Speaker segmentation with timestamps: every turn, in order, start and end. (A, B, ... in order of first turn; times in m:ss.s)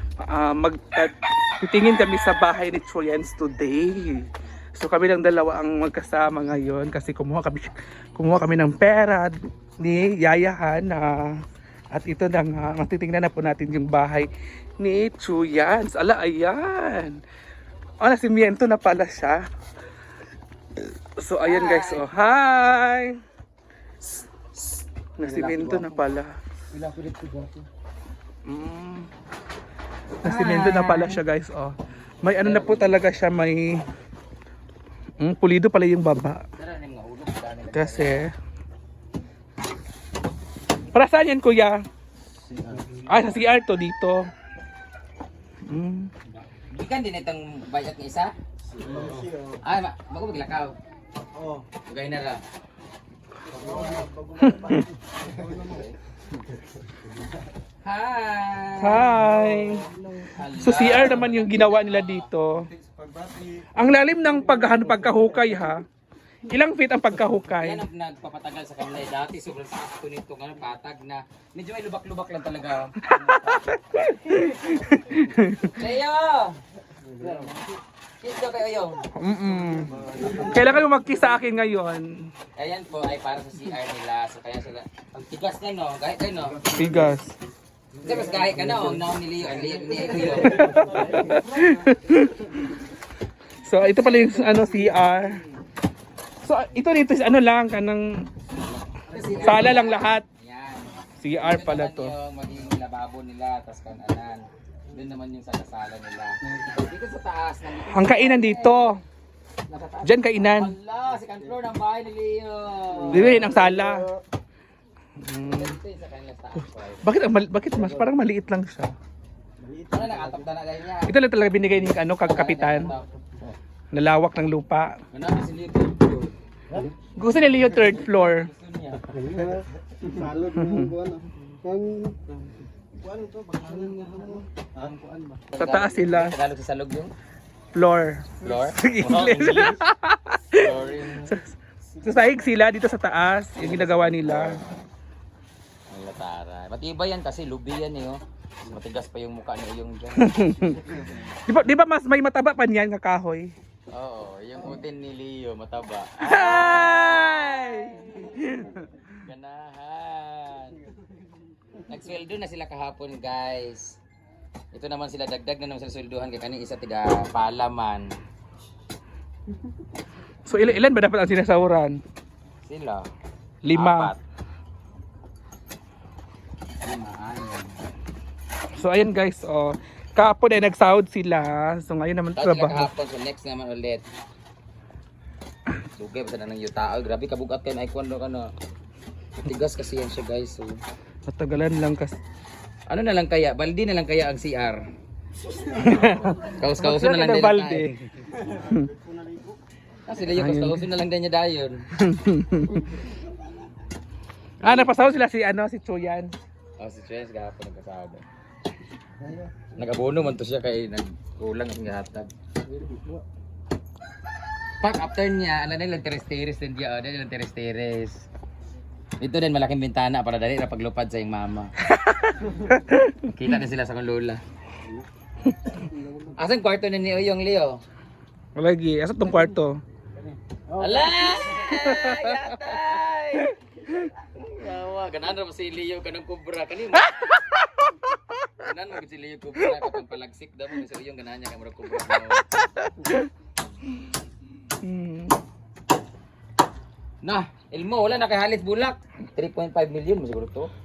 0:00.2-0:11.4 A
0:11.9-0:17.2 A
0:18.0-0:19.4 A
0:21.2-0:23.2 A
0:21.4-0:22.1 B
0:25.2-0:26.3 A
0:25.2-0:26.1 B
0:26.7-0:27.6 B
0:28.5-0:29.1 A
0:30.2-0:33.8 A
0:30.2-0:31.2 B
0:32.4-0:33.1 B
0:35.2-0:36.4 A
0:36.6-0:38.3 B
0:37.7-0:38.3 A
0:40.9-0:41.8 A
0:42.6-0:42.9 B
0:43.1-0:44.2 A
0:45.7-0:46.1 A
0:46.7-0:48.3 B
0:48.8-0:49.6 C
0:48.9-0:50.8 B
0:51.4-0:51.6 C
0:51.8-0:52.4 B
0:53.5-0:55.8 C
0:54.4-0:54.8 A
0:55.6-0:56.0 B
0:57.8-0:59.2 B
0:58.8-0:59.9 A
0:59.6-1:00.3 C
1:00.4-1:02.3 B
1:00.6-1:02.7 A
1:03.2-1:03.6 C
1:03.8-1:05.8 A
1:06.5-1:07.8 A
1:07.6-1:13.6 B
1:13.2-1:15.8 A
1:15.7-1:16.6 B
1:17.2-1:17.5 C
1:17.3-1:17.5 B
1:18.2-1:19.0 B
1:19.2-1:22.3 A
1:19.7-1:20.6 C
1:22.6-1:26.8 B
1:26.7-1:27.3 A
1:28.0-1:31.2 B
1:28.1-1:28.8 C
1:30.4-1:32.6 A
1:30.5-1:31.7 C
1:33.6-1:35.4 A
1:36.4-1:38.1 A
1:38.9-1:49.0 B
1:39.4-1:40.2 A
1:41.2-1:42.1 A
1:47.9-1:49.0 A
1:49.7-1:53.6 B
1:50.0-1:50.7 A
1:53.1-1:54.1 A
1:53.2-1:54.0 C
1:55.2-1:55.8 A
1:55.4-1:57.2 B
1:57.0-1:58.9 A
1:59.6-2:00.4 C
1:59.9-2:01.2 B
2:01.1-2:02.9 A
2:02.2-2:03.5 B
2:03.9-2:05.0 A
2:05.1-2:06.9 B
2:07.2-2:08.5 A
2:07.6-2:09.4 B
2:09.2-2:12.2 C
2:10.6-2:11.0 A
2:13.0-2:14.9 C
2:13.7-2:17.1 B
2:15.6-2:16.4 A
2:17.8-2:20.7 A
2:18.4-2:19.8 B
2:20.5-2:21.4 B
2:22.0-2:24.6 A
2:23.6-2:24.6 B
2:25.9-2:30.9 B
2:30.2-2:33.5 A
2:33.9-2:37.8 B
2:36.2-2:38.8 A
2:39.1-2:40.8 B
2:41.9-2:44.0 B
2:44.7-2:48.1 B
2:50.5-2:52.0 A
2:52.7-2:53.1 B
2:53.6-2:54.1 A
2:53.7-2:54.2 B
2:56.8-2:57.8 B
2:58.8-3:02.9 A
3:02.4-3:04.0 B
3:06.0-3:08.5 B
3:09.4-3:10.8 B
3:11.2-3:12.2 A
3:12.9-3:14.8 B
3:15.8-3:18.9 A
3:15.9-3:17.9 B
3:18.5-3:19.6 C
3:20.1-3:21.9 B
3:20.3-3:20.8 A
3:22.0-3:23.0 A
3:24.6-3:24.9 B
3:24.6-3:26.3 A
3:26.8-3:28.2 B
3:29.8-3:32.3 B
3:34.8-3:38.3 B
3:39.2-3:41.7 B
3:42.0-3:43.2 A
3:43.3-3:44.4 B
3:45.8-3:46.3 C
3:46.4-3:47.8 B
3:48.6-3:49.8 A
3:50.8-3:53.5 B
3:50.8-3:51.1 C
3:51.6-3:52.3 A
3:54.2-3:57.3 B
3:58.6-4:02.5 B
4:02.8-4:03.2 A
4:04.8-4:05.4 A
4:07.2-4:10.7 B